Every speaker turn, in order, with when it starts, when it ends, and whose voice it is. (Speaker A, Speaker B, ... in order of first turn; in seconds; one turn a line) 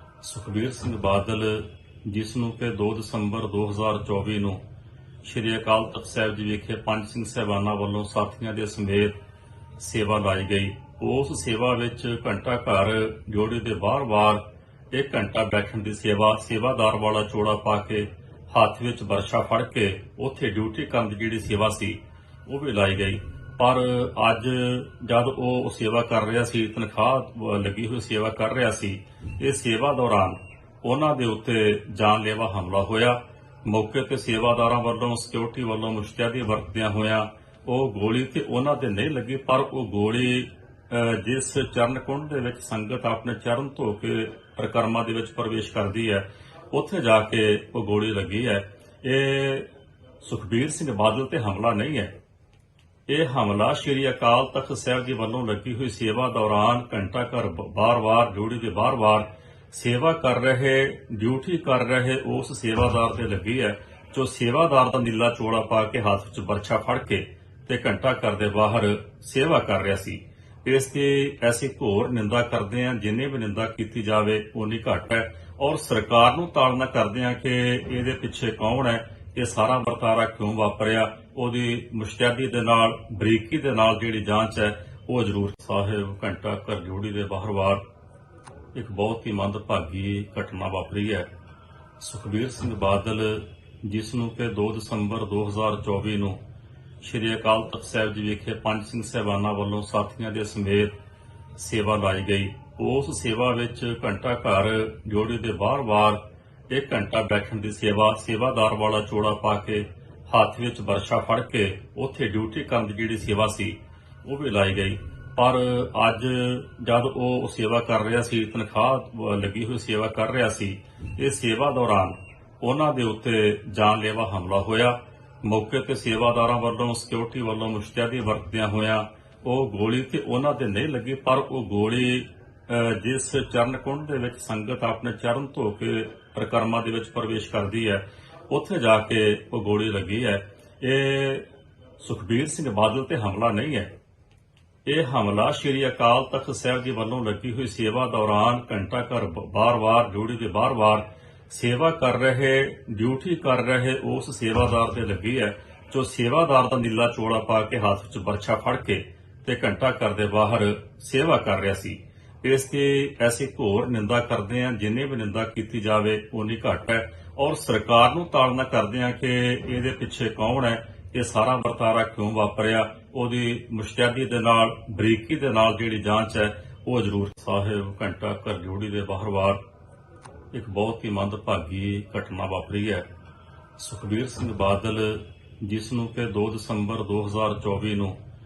Speaker A: 0.2-4.6
Speaker A: 5.2-9.2
Speaker A: 9.8-49.7
Speaker A: 50.2-52.1
Speaker A: 53.1-87.8
Speaker A: 88.7-91.3
Speaker A: 92.0-96.4
Speaker A: 97.0-100.9
Speaker A: 101.5-141.5
Speaker A: 142.0-143.9
Speaker A: 144.9-179.6
Speaker A: 180.5-183.1
Speaker A: 183.8-188.2